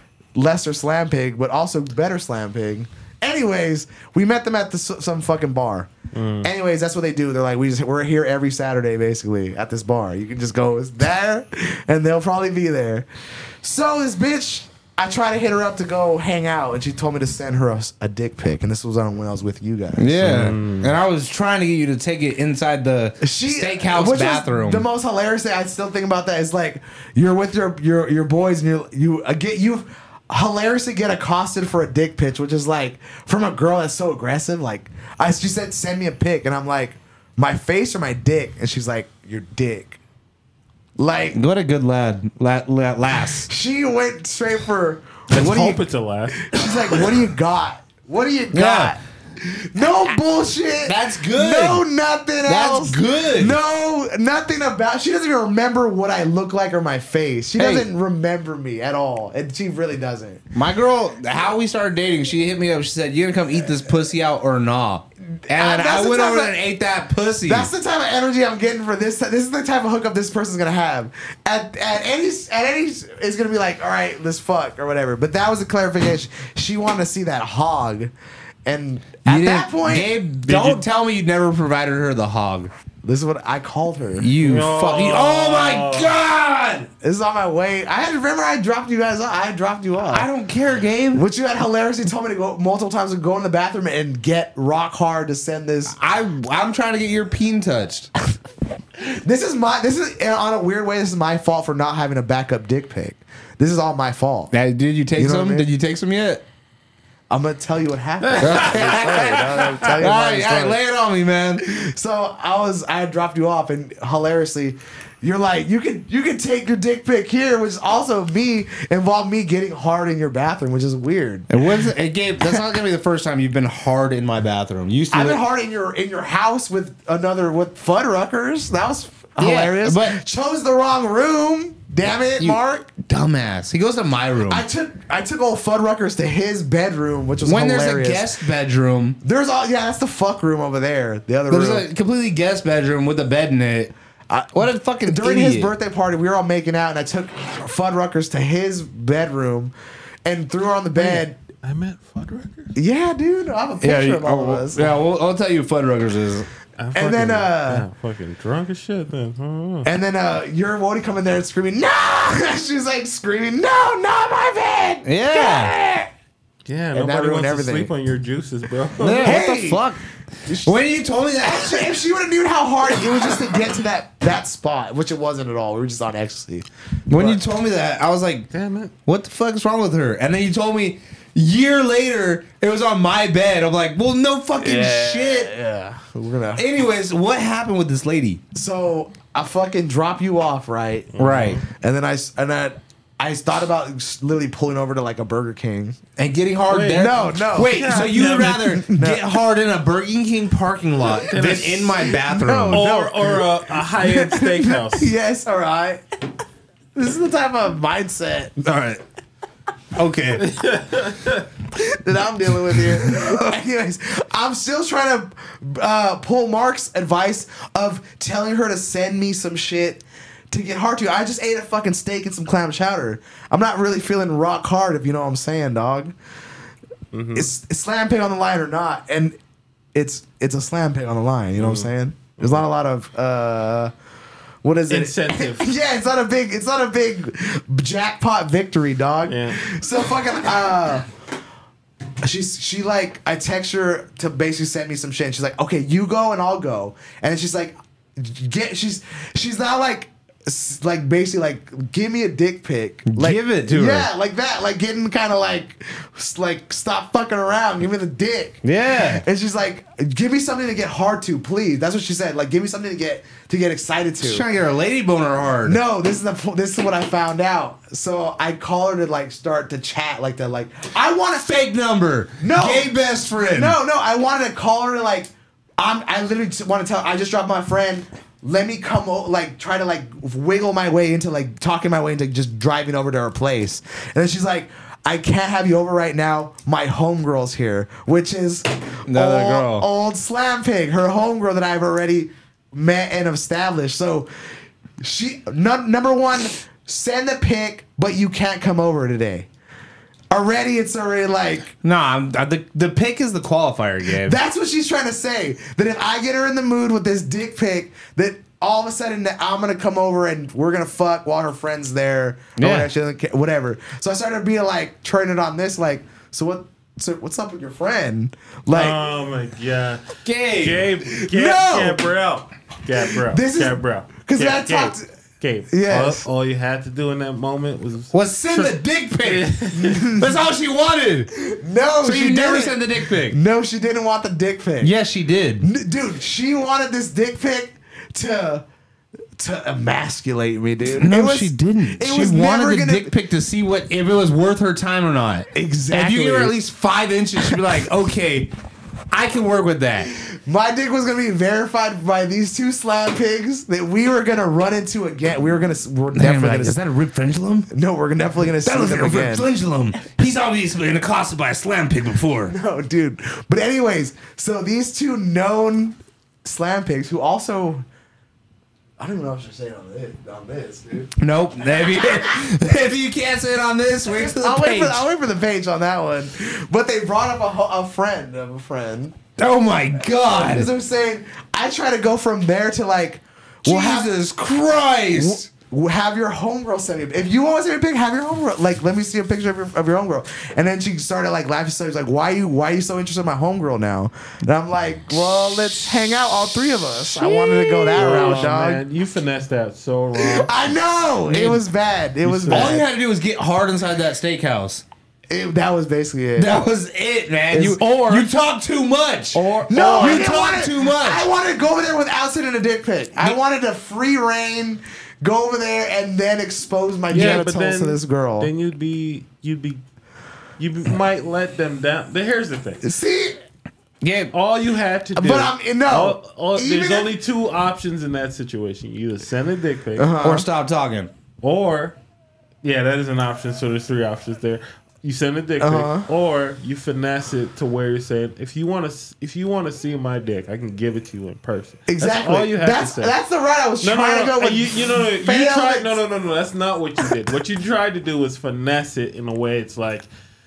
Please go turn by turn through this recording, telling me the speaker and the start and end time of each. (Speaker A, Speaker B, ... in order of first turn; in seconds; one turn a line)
Speaker A: 0.3-5.9
Speaker B: 6.1-6.5
Speaker A: 6.4-13.1
Speaker A: 13.6-20.5
Speaker C: 19.9-24.9
Speaker B: 20.2-20.9
Speaker A: 23.2-40.0
Speaker A: 41.0-41.4
Speaker C: 41.3-43.5
Speaker A: 43.3-45.8
Speaker B: 45.3-46.7
Speaker A: 46.4-60.4
Speaker C: 48.5-49.0
Speaker C: 50.8-51.8
Speaker C: 52.4-53.6
Speaker C: 57.5-57.9
Speaker C: 60.5-67.7
Speaker A: 65.5-66.5
Speaker A: 67.5-78.1
Speaker A: 78.7-80.1
Speaker C: 79.2-82.7
Speaker B: 80.4-80.8
Speaker A: 83.0-85.1
Speaker C: 84.2-86.9
Speaker B: 84.4-86.2
Speaker A: 87.0-90.3
Speaker C: 90.0-91.2
Speaker A: 91.1-96.0
Speaker C: 95.9-98.1
Speaker A: 99.0-104.5
Speaker C: 104.5-106.4
Speaker A: 105.2-105.7
Speaker A: 107.3-110.8
Speaker B: 108.2-109.9
Speaker C: 108.4-111.6
Speaker A: 111.6-121.6
Speaker C: 121.5-125.4
Speaker A: 125.1-132.9
Speaker C: 129.4-130.2
Speaker C: 132.4-134.7
Speaker A: 134.5-138.3
Speaker C: 137.4-139.2
Speaker A: 139.2-141.8
Speaker C: 141.5-143.9
Speaker A: 144.3-149.7
Speaker C: 144.5-145.7
Speaker A: 150.2-151.4
Speaker B: 150.9-152.7
Speaker A: 152.7-154.9
Speaker C: 153.8-156.5
Speaker B: 156.8-159.9
Speaker A: 156.9-157.8
Speaker A: 159.8-166.1
Speaker C: 165.0-165.7
Speaker B: 166.7-169.4
Speaker A: 166.9-167.9
Speaker C: 169.0-170.0
Speaker A: 169.2-169.9
Speaker A: 170.4-170.8
Speaker C: 170.6-172.0
Speaker A: 171.4-177.4
Speaker C: 177.1-178.5
Speaker B: 178.5-178.9
Speaker C: 179.0-185.5
Speaker A: 184.6-186.7
Speaker C: 186.6-188.4
Speaker A: 188.5-196.0
Speaker B: 191.1-191.6
Speaker C: 191.2-191.6
Speaker C: 196.2-202.9
Speaker B: 196.7-197.1
Speaker A: 196.9-199.2
Speaker B: 197.6-198.6
Speaker B: 201.2-202.1
Speaker A: 202.0-206.0
Speaker B: 202.7-205.1
Speaker A: 206.9-208.6
Speaker C: 208.6-209.0
Speaker C: 209.9-210.4
Speaker B: 210.4-211.5
Speaker A: 211.7-226.1
Speaker C: 213.0-213.4
Speaker B: 227.1-227.5
Speaker A: 227.3-229.3
Speaker A: 229.9-233.9
Speaker B: 231.6-232.6
Speaker A: 234.6-241.1
Speaker B: 234.9-235.7
Speaker B: 239.2-239.6
Speaker A: 242.2-264.4
Speaker C: 253.1-254.1
Speaker C: 258.6-259.2
Speaker C: 264.2-265.8
Speaker A: 265.6-271.6
Speaker C: 271.4-273.8
Speaker A: 272.4-294.3
Speaker C: 289.1-289.9
Speaker A: 295.0-299.5
Speaker A: 300.3-301.7
Speaker C: 301.8-304.4
Speaker A: 304.2-319.0
Speaker C: 312.6-312.9
Speaker B: 318.7-330.1
Speaker C: 320.2-320.9
Speaker A: 321.1-322.1
Speaker A: 323.2-325.0
Speaker A: 325.7-326.2
Speaker C: 328.1-331.3
Speaker A: 329.7-330.4
Speaker A: 331.3-334.9
Speaker C: 332.0-333.4
Speaker C: 334.8-335.7
Speaker A: 335.6-338.6
Speaker A: 339.4-343.1
Speaker C: 340.9-348.5
Speaker A: 345.5-346.5
Speaker C: 349.1-350.1
Speaker A: 350.2-356.8
Speaker C: 356.1-357.7
Speaker A: 357.7-359.5
Speaker C: 358.6-362.5
Speaker A: 362.5-367.8
Speaker A: 369.0-371.1
Speaker C: 371.2-375.0
Speaker A: 374.1-379.1
Speaker C: 379.4-380.7
Speaker A: 380.2-384.1
Speaker C: 383.6-385.4
Speaker A: 385.1-398.8
Speaker B: 397.2-400.5
Speaker C: 397.9-398.4
Speaker A: 400.1-402.9
Speaker C: 401.3-401.6
Speaker B: 402.2-402.8
Speaker C: 402.5-404.8
Speaker A: 405.3-406.6
Speaker C: 406.4-411.3
Speaker B: 407.5-408.3
Speaker B: 409.3-410.3
Speaker A: 409.7-418.5
Speaker B: 417.1-419.8
Speaker C: 417.1-417.4
Speaker B: 420.6-422.8
Speaker A: 422.8-423.4
Speaker C: 424.0-424.3
Speaker B: 424.3-430.1
Speaker A: 425.1-427.1
Speaker A: 430.0-430.5
Speaker C: 430.2-431.1
Speaker B: 431.4-432.0
Speaker B: 432.6-443.1
Speaker A: 435.6-436.1
Speaker A: 441.9-446.0
Speaker B: 443.8-450.1